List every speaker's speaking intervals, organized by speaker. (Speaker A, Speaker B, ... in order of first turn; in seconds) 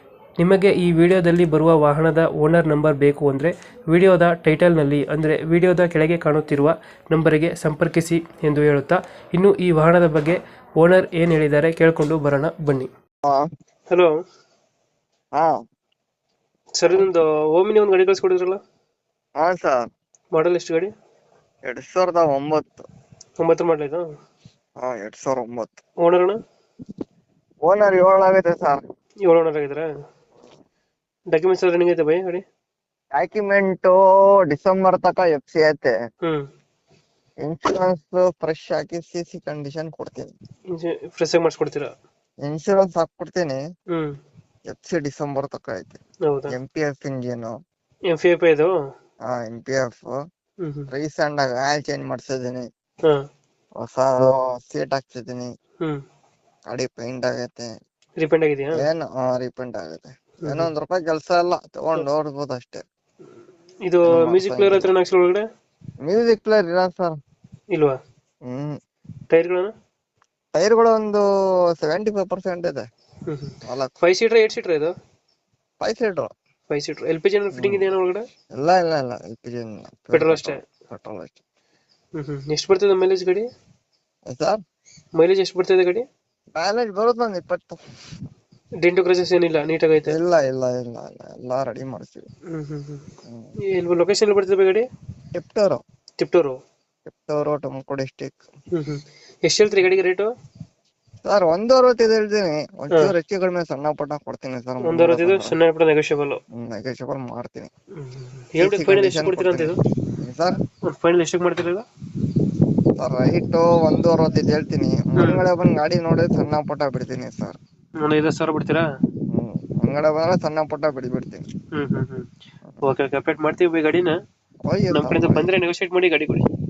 Speaker A: 0.4-12.9, 16.8-18.6, 20.3-20.9, 23.4-24.1, 26.0-26.4, 29.2-29.9, 31.3-32.4, 40.7-41.9, 43.9-44.2, 46.2-46.5, 48.1-48.7, 50.6-50.9, 58.2-58.8, 60.4-60.7, 63.9-65.4, 67.7-68.0, 69.3-69.7, 73.3-74.9, 76.7-78.2, 80.1-80.6, 82.2-83.5, 85.2-86.1, 88.8-90.2, 92.5-93.1, 93.7-94.9, 96.2-96.6, 98.7-100.3, 104.8-106.4, 108.0-109.8, 110.8-111.8, 115.2-115.4, 118.0-118.8, 121.7-122.3, 122.8-124.1, 124.9-126.4
Speaker B: 19.4-19.9, 21.6-22.9, 24.8-25.8, 27.6-28.8, 33.1-36.0, 37.4-40.3, 42.4-43.6, 44.7-46.0, 46.5-47.5, 49.2-50.2, 50.9-52.7, 53.8-55.5, 56.7-57.7, 58.7-62.8, 64.1-64.9, 66.0-67.2, 68.5-68.8, 70.5-71.2, 71.8-72.9, 73.6-73.9, 75.8-76.3, 77.5-77.9, 78.5-81.4, 84.3-84.6, 86.5-87.8, 90.0-92.2, 93.2-93.5, 95.3-95.8, 97.1-98.4, 101.2-105.5, 106.5-107.7, 108.6-110.6, 113.0-117.6, 119.3-121.5, 124.6-125.5